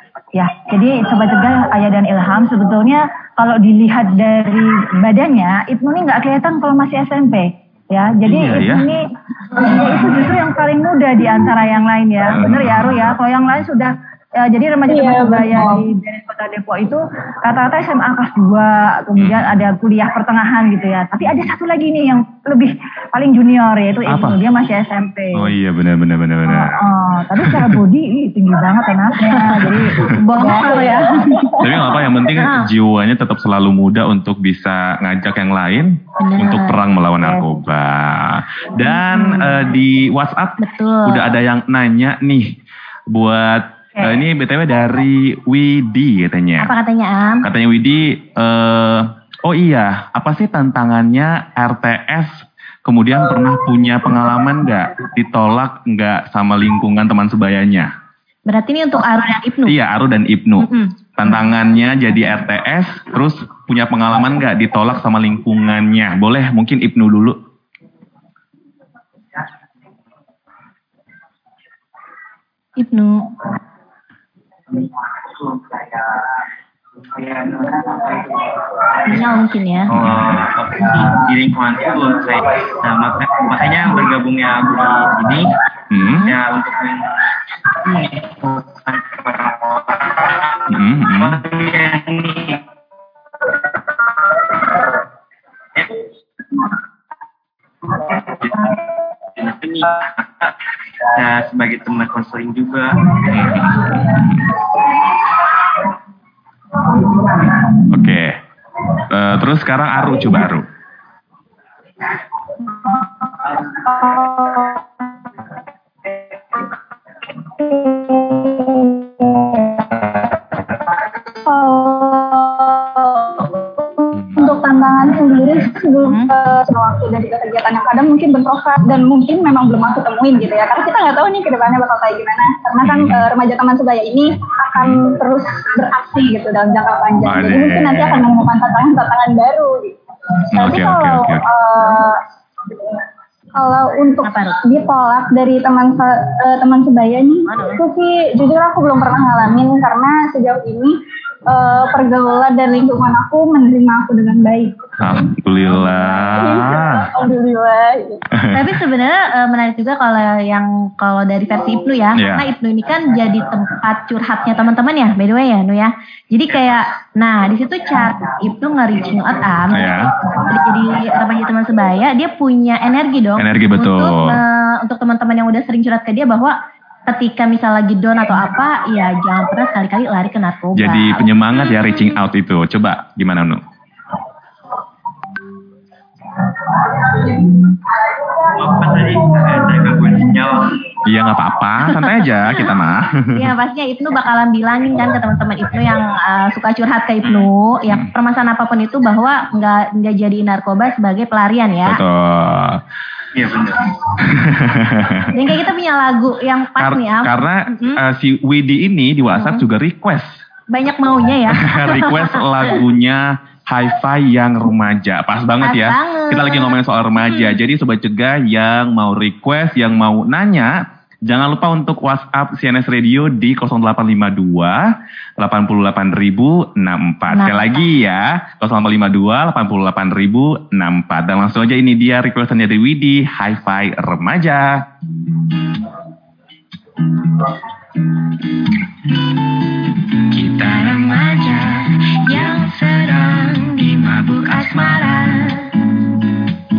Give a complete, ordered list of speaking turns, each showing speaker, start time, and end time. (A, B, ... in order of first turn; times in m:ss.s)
0:00.3-0:25.5 A
0:08.2-0:08.8 B
0:12.3-0:13.0 B
0:14.9-0:15.8 C
0:19.2-0:19.5 B
0:24.1-0:24.4 B
0:25.3-0:26.8 B
0:26.4-0:31.6 A
0:27.4-0:27.8 B
0:30.3-0:31.2 D
0:30.3-0:31.9 C
0:31.6-0:42.5 B
0:32.4-0:32.7 D
0:36.2-0:36.8 D
0:40.6-0:41.4 D
0:43.1-0:46.7 B
0:46.6-0:47.4 D
0:47.4-0:57.9 B
0:58.5-0:59.7 D
0:59.6-1:07.4 B
1:00.6-1:01.3 D
1:12.8-1:13.3 D
1:14.7-1:16.3 E
1:17.0-1:19.0 E
1:19.0-1:19.9 D
1:19.9-1:25.6 E
1:19.9-1:20.2 B
1:25.9-1:26.4 B
1:26.2-1:32.7 E
1:30.7-1:31.4 B
1:33.6-1:35.0 E
1:35.7-1:36.7 E
1:37.8-1:44.2 E
1:43.3-1:44.5 B
1:47.9-1:48.4 B
1:49.0-1:50.7 B
1:53.7-1:54.8 C
1:57.6-2:00.2 C
2:01.3-2:20.0 C
2:04.1-2:04.4 B
2:12.8-2:13.3 B
2:14.7-2:15.1 B
2:17.2-2:18.3 B
2:20.6-2:21.4 B
2:20.6-2:22.2 C
2:23.6-2:31.0 C
2:24.2-2:24.6 D
2:27.4-2:27.8 D
2:31.5-2:34.8 C
2:35.0-2:37.1 B
2:36.4-2:38.2 C
2:38.3-2:38.6 B
2:38.5-3:01.3 D
2:42.1-2:42.4 B
2:49.7-2:50.1 B
2:53.4-2:54.4 B
3:00.8-3:03.6 B
3:08.4-3:11.0 E
3:11.0-3:13.5 B
3:11.9-3:12.7 D
3:13.3-3:22.0 D
3:17.2-3:18.1 B
3:21.8-3:22.8 B
3:23.3-3:23.9 E
3:24.2-3:25.3 B
3:25.3-3:28.0 D
3:26.8-3:30.4 B
3:29.3-3:29.6 D
3:30.7-3:32.8 D
3:31.5-3:44.8 B
3:35.6-3:37.6 D
3:45.4-3:54.8 B
3:47.3-3:47.9 D
4:00.3-4:05.7 F